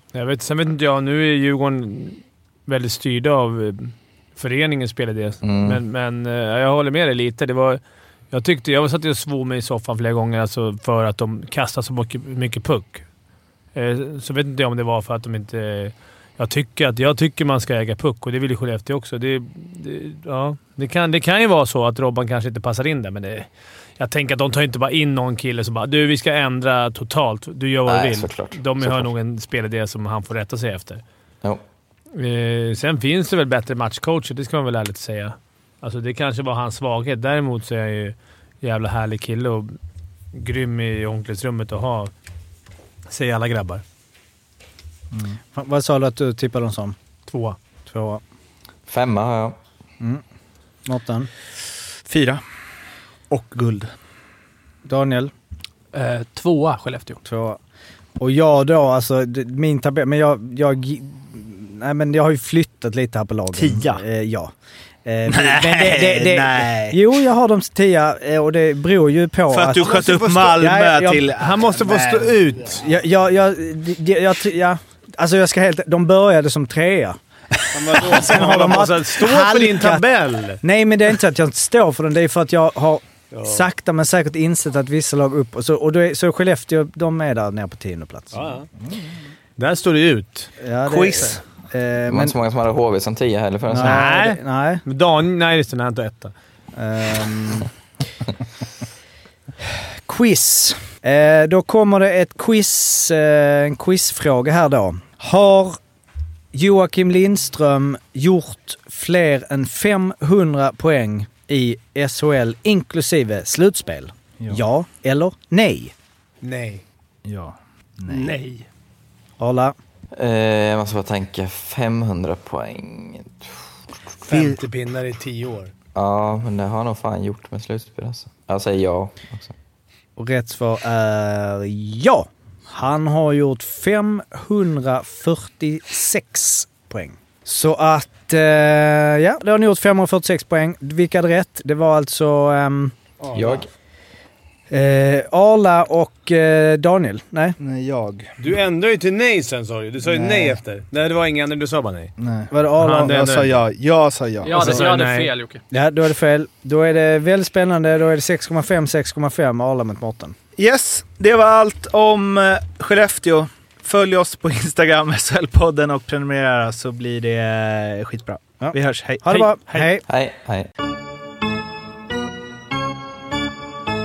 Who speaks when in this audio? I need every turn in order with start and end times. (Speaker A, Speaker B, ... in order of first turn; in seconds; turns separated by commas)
Speaker A: 0.1-13.0, Speaker B: 5.4-5.8, Speaker A: 13.7-31.0, Speaker B: 27.9-29.1, Speaker A: 32.1-39.7, Speaker A: 40.3-42.1, Speaker A: 43.1-43.8, Speaker C: 45.5-47.0, Speaker A: 47.2-47.6, Speaker C: 47.9-48.2, Speaker B: 48.9-49.6, Speaker C: 50.9-51.3, Speaker D: 52.1-52.4, Speaker D: 53.3-53.9, Speaker C: 54.9-55.3, Speaker E: 55.9-57.2, Speaker C: 57.2-57.6, Speaker C: 58.2-64.5, Speaker D: 63.5-64.0, Speaker C: 65.1-71.2, Speaker D: 65.3-67.0, Speaker D: 69.5-72.5, Speaker A: 71.4-72.8, Speaker C: 72.7-77.2, Speaker A: 77.7-80.6, Speaker C: 77.8-80.0, Speaker C: 80.6-88.5, Speaker A: 83.3-83.6, Speaker A: 88.3-88.7, Speaker A: 89.6-90.5, Speaker C: 90.6-92.3, Speaker D: 90.9-91.4, Speaker B: 92.1-94.0, Speaker C: 93.7-94.8, Speaker A: 93.8-96.3, Speaker C: 96.8-97.7, Speaker C: 100.1-105.8, Speaker C: 106.5-115.9, Speaker A: 116.4-116.8, Speaker D: 117.2-118.3, Speaker A: 118.1-118.6, Speaker C: 119.4-119.7, Speaker B: 120.1-123.5, Speaker D: 124.3-124.6, Speaker A: 124.3-125.7, Speaker B: 125.9-129.5, Speaker C: 130.2-142.9, Speaker B: 143.3-143.7, Speaker C: 144.7-147.6, Speaker D: 147.6-148.3, Speaker A: 148.4-152.1, Speaker C: 150.0-150.6, Speaker D: 152.2-152.5, Speaker C: 152.5-153.4, Speaker A: 152.8-153.5, Speaker D: 153.1-154.7, Speaker E: 154.4-155.6, Speaker A: 154.5-155.3, Speaker C: 155.7-160.3, Speaker D: 160.6-169.2, Speaker C: 168.6-170.0, Speaker A: 169.2-169.9, Speaker B: 170.1-170.7